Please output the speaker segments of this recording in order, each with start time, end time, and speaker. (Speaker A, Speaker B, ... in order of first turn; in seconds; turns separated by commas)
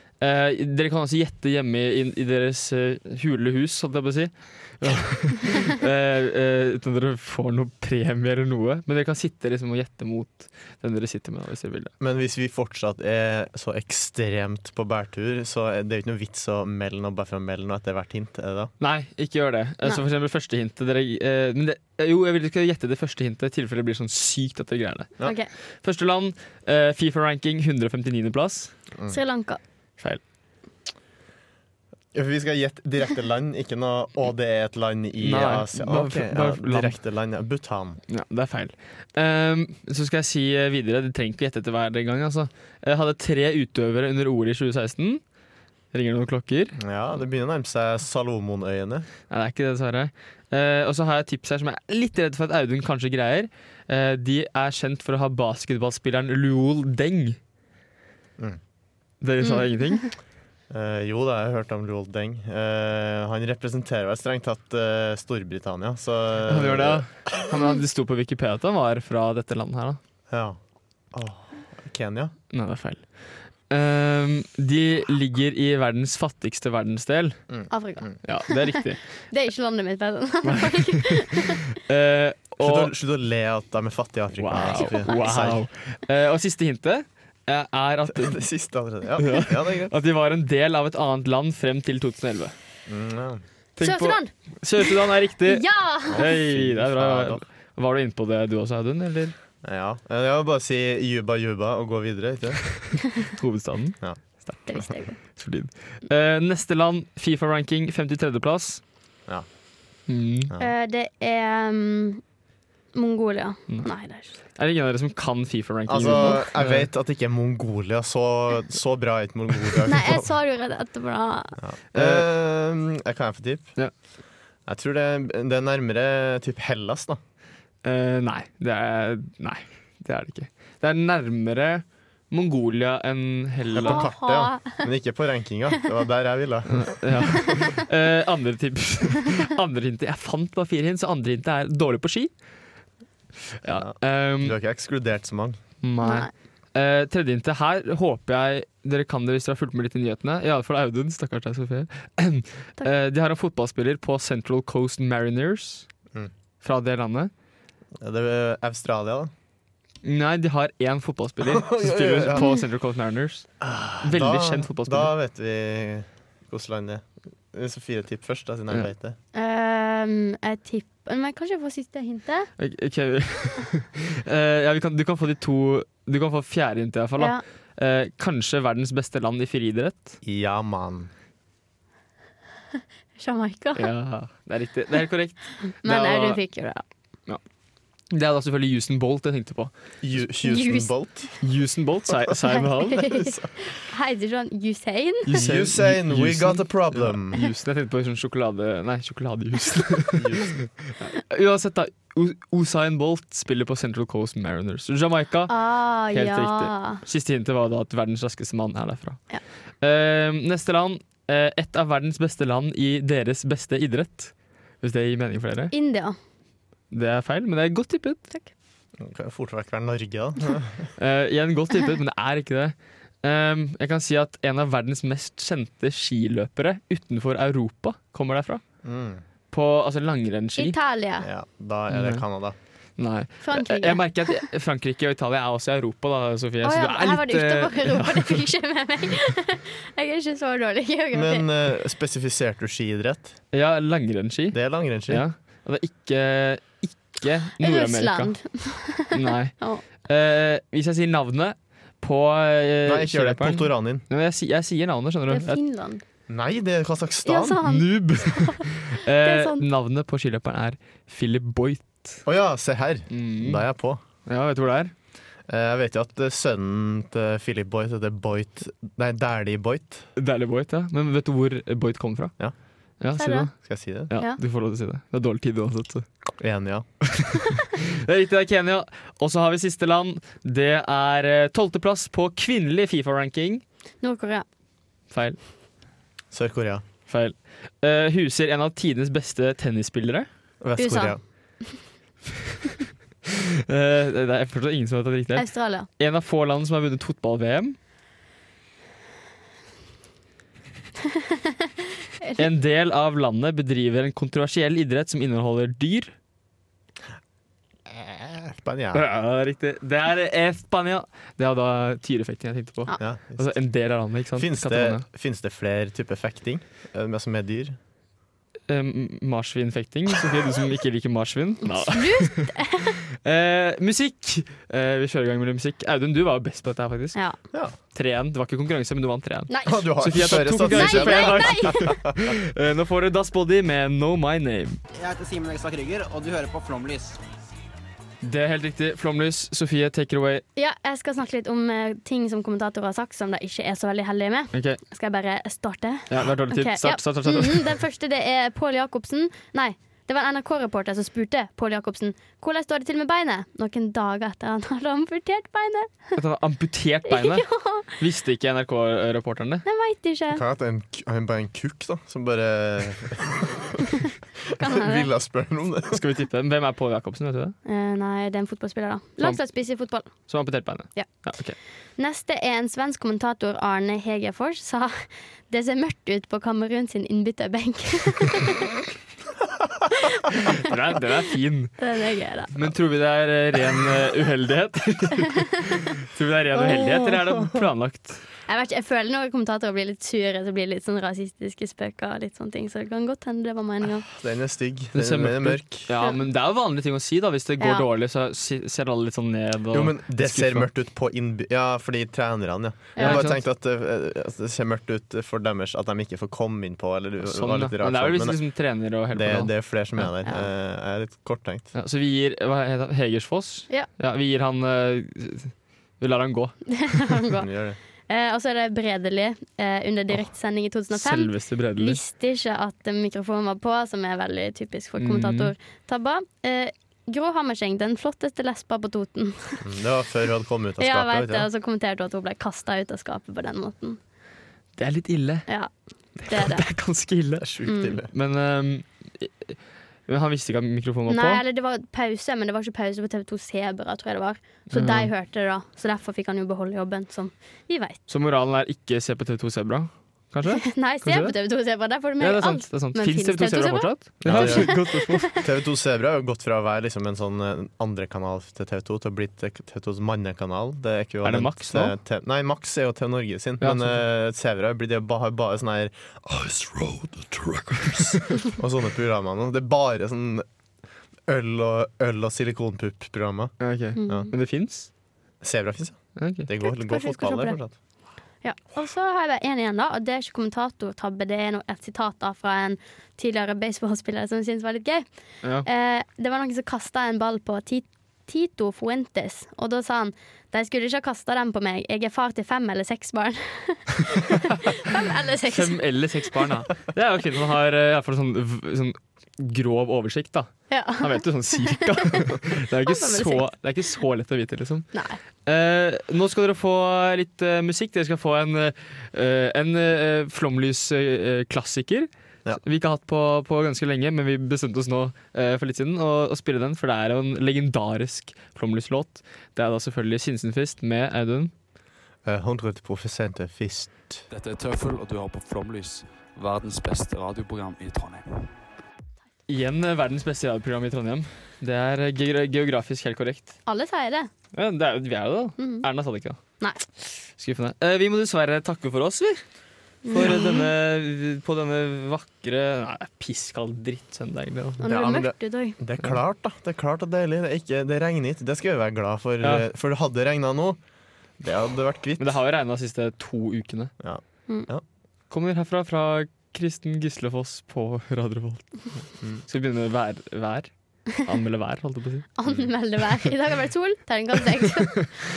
Speaker A: 0.2-11.9, Speaker B: 12.0-18.7, Speaker A: 18.8-25.1, Speaker C: 25.2-25.5, Speaker A: 25.6-28.7, Speaker C: 29.1-29.6, Speaker B: 32.1-38.0, Speaker A: 35.2-37.0, Speaker A: 38.1-45.2, Speaker A: 45.9-46.8, Speaker B: 46.8-49.1, Speaker A: 49.3-57.4, Speaker A: 59.2-60.1, Speaker C: 59.4-60.1, Speaker B: 60.7-67.3, Speaker A: 66.5-70.0, Speaker B: 70.3-70.6, Speaker B: 71.1-72.3, Speaker A: 72.5-77.4, Speaker B: 77.5-78.2, Speaker C: 77.7-81.7, Speaker A: 78.2-79.0, Speaker A: 80.5-82.9, Speaker B: 82.6-85.6, Speaker A: 84.4-88.4, Speaker C: 85.0-85.5, Speaker B: 88.0-89.9, Speaker A: 89.2-92.5, Speaker B: 92.9-93.4, Speaker A: 93.8-99.3, Speaker C: 93.8-96.3, Speaker B: 96.1-97.4, Speaker B: 99.6-102.7, Speaker A: 103.3-108.8, Speaker C: 104.7-105.2, Speaker A: 110.1-110.5, Speaker C: 110.6-112.2, Speaker C: 112.9-114.4, Speaker A: 114.4-116.9, Speaker B: 115.9-120.2, Speaker C: 116.0-116.4, Speaker C: 119.8-121.6, Speaker B: 121.6-123.7, Speaker A: 121.9-122.2, Speaker B: 124.7-127.2, Speaker A: 127.8-134.1, Speaker B: 133.7-137.5, Speaker C: 133.8-134.9, Speaker A: 136.7-142.3, Speaker A: 143.6-144.6, Speaker B: 143.7-145.6, Speaker A: 145.8-155.9, Speaker C: 146.0-146.3, Speaker A: 156.6-157.3, Speaker B: 158.0-159.3, Speaker A: 160.0-163.5, Speaker B: 161.4-162.5, Speaker B: 163.6-169.2, Speaker A: 164.0-165.1, Speaker C: 169.3-172.5, Speaker A: 172.6-180.2, Speaker B: 180.2-181.1, Speaker C: 183.2-183.9, Speaker A: 183.8-186.4, Speaker C: 185.8-186.8, Speaker A: 188.1-189.7, Speaker B: 190.0-191.3, Speaker C: 190.4-190.9, Speaker A: 191.4-193.1, Speaker C: 192.5-195.3, Speaker B: 193.0-193.5, Speaker A: 195.2-205.6, Speaker B: 195.3-197.3, Speaker B: 200.2-200.5, Speaker C: 205.5-207.0, Speaker A: 206.1-209.2, Speaker A: 209.8-215.7, Speaker C: 215.7-216.2, Speaker A: 216.9-218.2, Speaker B: 219.0-220.9, Speaker A: 221.0-228.6, Speaker B: 228.8-229.2, Speaker A: 229.5-230.8, Speaker C: 230.6-231.3, Speaker B: 231.2-232.6, Speaker A: 231.9-232.2, Speaker A: 233.0-238.5, Speaker C: 233.4-234.5, Speaker C: 236.6-241.5, Speaker B: 241.1-243.4, Speaker A: 243.5-248.3, Speaker B: 244.5-245.2, Speaker C: 247.6-249.8, Speaker A: 249.1-255.6, Speaker B: 252.8-254.0, Speaker C: 255.3-256.0, Speaker B: 256.3-257.6, Speaker C: 257.2-259.6, Speaker A: 257.6-262.2, Speaker B: 262.2-264.0, Speaker A: 263.1-263.6, Speaker A: 264.2-264.9, Speaker B: 265.5-270.1, Speaker A: 270.1-272.3, Speaker A: 273.0-273.6, Speaker C: 273.1-273.5, Speaker B: 273.6-274.1, Speaker A: 274.1-276.1, Speaker B: 276.4-276.9, Speaker A: 277.5-283.6, Speaker C: 284.0-284.4, Speaker A: 285.1-285.4, Speaker B: 286.3-286.8, Speaker A: 287.1-290.3, Speaker B: 290.6-291.2, Speaker C: 290.8-291.8, Speaker A: 293.7-297.8, Speaker C: 295.4-295.9, Speaker A: 302.4-306.1, Speaker B: 307.9-309.0, Speaker A: 308.9-315.0, Speaker B: 313.0-313.6, Speaker B: 314.3-317.8, Speaker A: 318.7-322.5, Speaker C: 321.7-323.0, Speaker A: 323.2-327.2, Speaker A: 327.9-334.8, Speaker C: 329.5-332.0, Speaker B: 329.6-332.1, Speaker D: 334.9-337.2, Speaker A: 338.2-340.4, Speaker C: 340.6-356.1, Speaker A: 344.5-344.8, Speaker A: 346.1-347.7, Speaker A: 356.1-359.6, Speaker C: 357.1-357.9, Speaker C: 359.6-360.4, Speaker B: 360.3-366.0, Speaker C: 364.6-365.1, Speaker A: 365.9-367.5, Speaker C: 367.6-370.2, Speaker A: 370.3-371.6, Speaker C: 372.0-378.8, Speaker A: 380.4-381.8, Speaker C: 381.8-382.6, Speaker A: 382.5-388.2, Speaker C: 386.6-387.1, Speaker C: 388.5-394.1, Speaker B: 394.1-395.9, Speaker A: 394.9-400.7, Speaker C: 397.6-397.9, Speaker B: 399.7-408.4, Speaker C: 402.9-403.2, Speaker A: 403.0-403.4, Speaker A: 407.2-410.1, Speaker B: 409.1-411.7, Speaker A: 411.7-416.8, Speaker C: 416.8-417.5, Speaker B: 417.3-417.8, Speaker C: 418.1-429.6, Speaker A: 420.9-422.0, Speaker A: 425.0-425.5, Speaker B: 429.6-431.5, Speaker C: 430.8-434.0, Speaker A: 434.8-435.5, Speaker C: 435.5-436.7, Speaker A: 436.2-437.4, Speaker B: 437.4-438.1, Speaker C: 437.6-437.9, Speaker A: 438.1-441.4, Speaker C: 441.1-448.0, Speaker A: 444.7-445.1, Speaker A: 448.1-451.4, Speaker C: 450.4-455.4, Speaker A: 452.2-455.4, Speaker B: 454.2-470.4, Speaker A: 461.2-461.9, Speaker A: 463.6-464.0, Speaker A: 467.5-468.2, Speaker B: 471.3-474.3, Speaker A: 473.6-474.9, Speaker C: 474.0-474.3, Speaker B: 475.4-477.7, Speaker A: 476.1-476.5, Speaker C: 476.6-477.6, Speaker C: 478.4-485.1, Speaker C: 485.6-496.4, Speaker A: 495.5-504.9, Speaker C: 500.7-503.7, Speaker C: 504.9-505.2, Speaker A: 505.4-521.5, Speaker B: 522.2-524.3, Speaker E: 524.3-528.5, Speaker A: 529.5-533.5, Speaker C: 533.7-534.3, Speaker A: 534.5-536.4, Speaker C: 535.6-535.9, Speaker A: 537.4-539.4, Speaker C: 540.0-540.7, Speaker A: 540.1-544.8, Speaker C: 544.8-545.8, Speaker B: 544.9-550.8, Speaker A: 549.4-549.7, Speaker B: 551.4-552.4, Speaker A: 552.2-553.9, Speaker B: 554.0-554.8, Speaker A: 555.3-562.3, Speaker C: 562.4-565.2